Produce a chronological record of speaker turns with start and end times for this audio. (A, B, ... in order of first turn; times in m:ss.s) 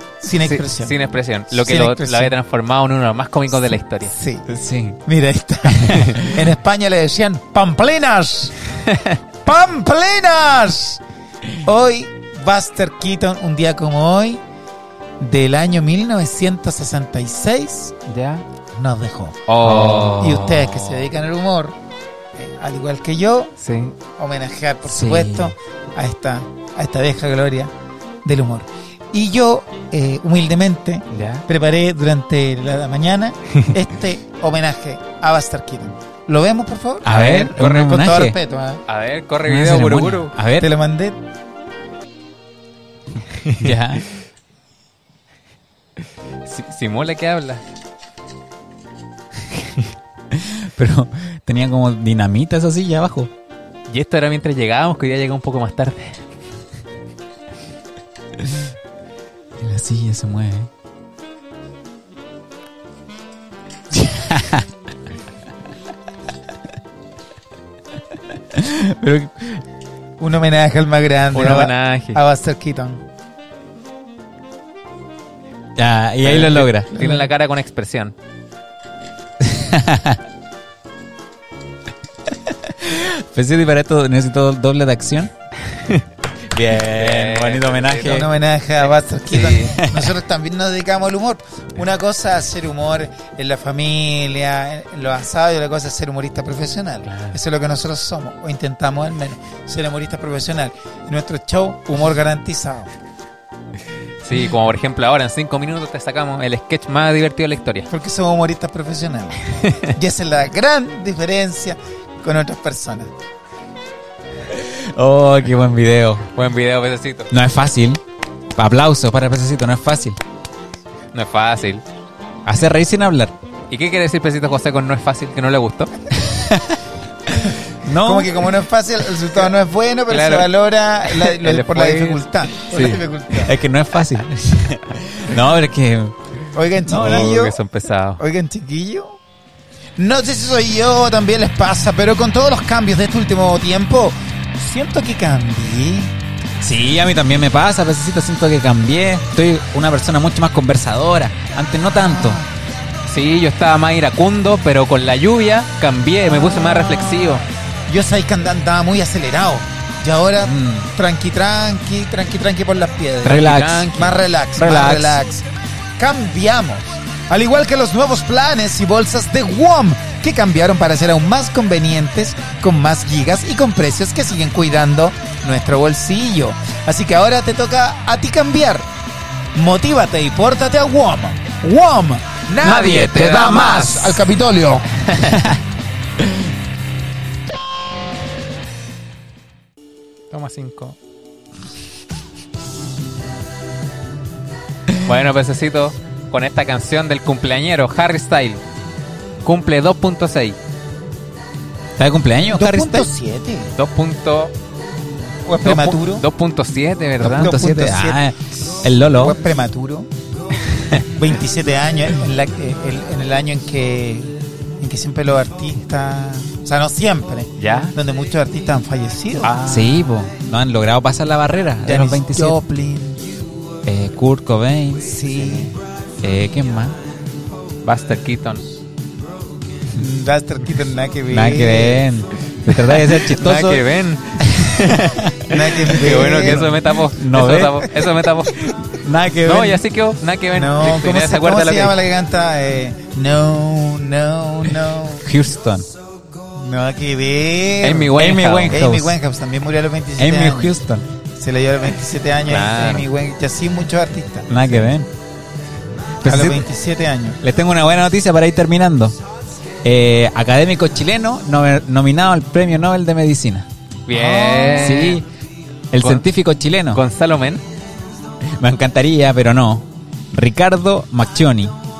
0:00.2-0:00.9 A
0:00.4-0:04.1 B
0:01.5-0:02.3 A
0:04.1-0:04.5 A
0:04.5-0:05.0 C
0:05.0-0:08.6 A
0:05.6-0:06.4 C
0:08.9-0:09.2 B
0:09.4-0:11.0 A
0:11.5-0:14.4 A
0:15.2-0:17.9 A
0:18.1-0:18.4 B
0:18.7-0:19.4 A
0:19.5-0:20.6 B
0:19.6-0:20.8 C
0:20.1-0:21.8 A
0:22.4-0:23.5 A
0:23.6-0:24.0 B
0:24.1-0:27.7 A
0:24.9-0:25.5 C
0:28.2-0:38.8 A
0:31.1-0:31.4 B
0:37.0-0:38.4 C
0:38.9-0:40.3 B
0:39.4-0:40.7 C
0:40.6-0:41.2 A
0:43.3-0:43.8 B
0:43.6-0:44.0 C
0:46.4-0:47.6 B
0:50.3-0:53.3 C
0:53.9-0:56.2 B
0:59.6-1:00.7 C
1:03.9-1:04.7 C
1:08.5-1:09.6 C
1:10.2-1:13.0 A
1:11.3-1:12.2 B
1:15.8-1:16.9 C
1:16.2-1:17.3 A
1:16.9-1:18.1 B
1:19.4-1:20.2 C
1:22.4-1:25.3 C
1:25.8-1:26.0 B
1:26.5-1:28.3 C
1:26.8-1:28.2 B
1:28.0-1:42.9 A
1:29.3-1:29.8 B
1:29.5-1:30.1 C
1:37.1-1:37.4 B
1:44.2-1:47.9 B
1:47.9-1:53.1 A
1:49.6-1:49.9 B
1:54.4-1:56.2 C
1:56.3-1:57.3 B
1:57.3-1:58.0 C
1:58.5-2:00.2 C
2:01.1-2:01.8 B
2:02.4-2:03.3 C
2:03.7-2:05.9 B
2:06.2-2:06.8 C
2:07.8-2:08.5 C
2:08.0-2:13.6 A
2:10.1-2:10.5 B
2:11.0-2:13.0 B
2:13.4-2:16.2 C
2:16.5-2:17.6 A
2:16.8-2:17.4 C
2:16.9-2:18.2 B
2:18.2-2:19.2 A
2:20.0-2:26.1 A
2:26.6-2:32.4 C
2:31.9-2:32.5 A
2:33.0-2:37.4 B
2:36.3-2:45.4 A
2:40.4-2:40.9 C
2:43.2-2:43.9 C
2:43.2-2:44.2 B
2:44.5-2:45.2 C
2:46.0-2:58.9 A
2:59.5-3:05.1 A
3:02.6-3:04.2 C
3:05.2-3:05.6 C
3:10.3-3:11.0 B
3:15.0-3:18.6 B
3:19.4-3:20.6 B
3:22.0-3:23.1 C
3:22.5-3:23.7 A
3:23.8-3:24.5 B
3:25.4-3:26.2 A
3:25.6-3:27.5 B
3:27.2-3:29.4 C
3:27.2-3:28.2 A
3:29.0-3:30.1 A
3:30.9-3:39.6 A
3:37.6-3:38.0 B
3:39.4-3:40.0 B
3:39.6-3:42.6 C
3:41.8-3:43.2 A
3:43.8-3:45.0 C
3:45.0-3:45.7 A
3:46.2-3:47.0 C
3:47.8-3:48.7 B
3:49.9-3:52.1 A
3:51.3-3:53.8 C
3:52.7-3:58.6 B
3:54.5-3:55.3 C
3:55.5-3:56.8 A
3:57.1-3:57.9 C
3:58.5-3:59.8 C
3:59.4-4:02.0 B
4:00.5-4:05.2 A
4:05.2-4:05.9 C
4:06.6-4:08.2 A
4:07.8-4:08.8 B
4:08.1-4:09.2 C
4:08.7-4:10.8 A
4:10.2-4:11.0 C
4:11.4-4:14.9 A
4:12.5-4:13.1 B
4:14.5-4:15.1 C
4:16.2-4:16.7 C
4:16.2-4:17.4 A
4:17.4-4:19.2 C
4:19.8-4:23.7 C
4:24.1-4:25.2 B
4:24.1-4:25.0 A
4:24.7-4:25.2 C
4:25.9-4:27.0 C
4:26.0-4:26.2 B
4:26.9-4:27.6 B
4:28.4-4:31.7 C